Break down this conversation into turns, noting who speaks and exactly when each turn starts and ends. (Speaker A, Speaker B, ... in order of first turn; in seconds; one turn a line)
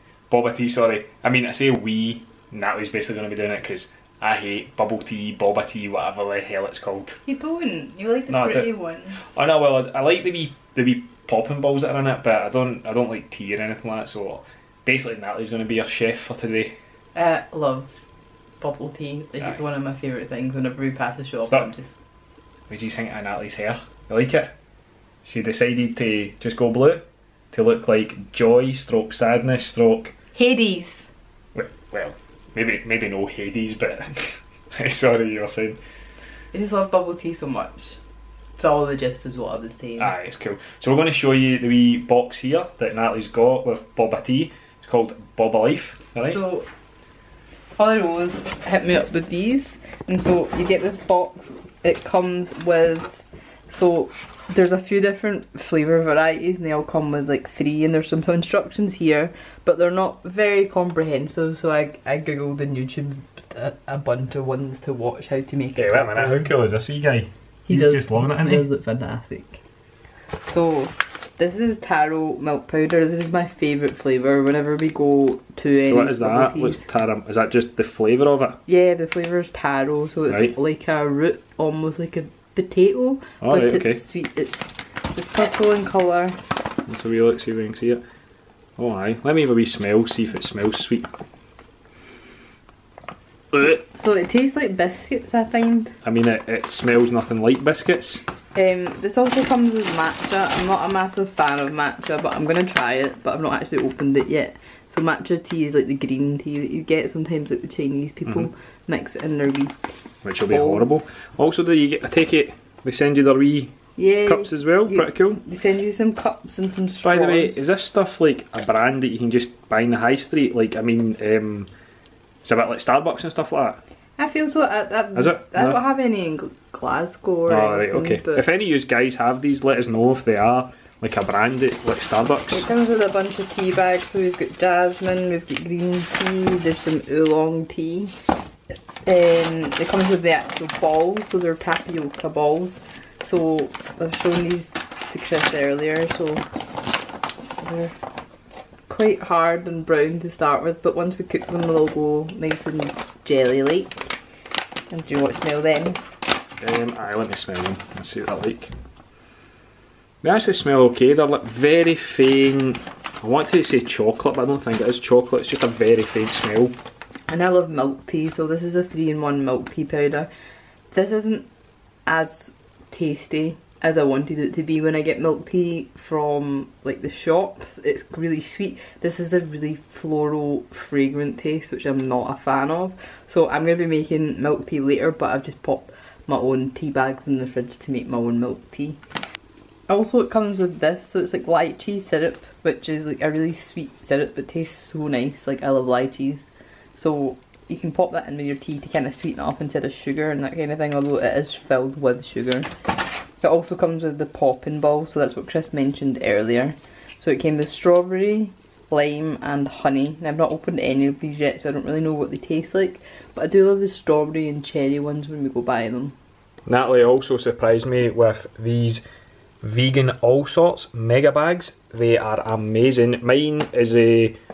Speaker A: 0.3-7.2
Speaker B: 7.2-9.2
Speaker A: 8.3-16.7
Speaker B: 17.1-17.9
Speaker B: 18.6-21.9
Speaker A: 22.7-24.5
Speaker A: 25.2-30.1
Speaker B: 30.3-31.1
Speaker A: 31.5-35.8
Speaker B: 36.5-38.0
Speaker B: 38.6-40.1
Speaker A: 40.0-46.4
Speaker B: 46.2-46.7
Speaker B: 47.8-66.5
Speaker A: 65.8-68.6
Speaker B: 67.7-69.6
Speaker B: 70.5-76.8
Speaker A: 75.8-78.6
Speaker B: 78.7-86.3
Speaker A: 80.3-80.5
Speaker A: 83.4-84.0
Speaker A: 86.9-88.0
Speaker A: 88.8-91.1
Speaker B: 93.5-95.9
Speaker A: 96.0-98.2
Speaker B: 98.5-109.8
Speaker A: 110.2-113.7
Speaker B: 110.5-111.0
Speaker B: 114.0-117.6
Speaker A: 114.2-115.4
Speaker A: 117.0-121.7
Speaker A: 122.4-123.8
Speaker B: 124.2-128.4
Speaker A: 125.1-125.8
Speaker A: 127.5-132.7
Speaker B: 132.5-138.1
Speaker B: 139.0-146.4
Speaker B: 147.6-147.9
Speaker B: 148.9-154.1
Speaker B: 154.9-156.0
Speaker A: 156.6-158.7
Speaker A: 160.2-166.7
Speaker B: 167.3-170.3
Speaker B: 170.9-171.5
Speaker B: 172.1-189.0
Speaker B: 189.9-202.7
Speaker B: 203.4-216.1
Speaker A: 216.7-219.0
Speaker A: 219.6-224.3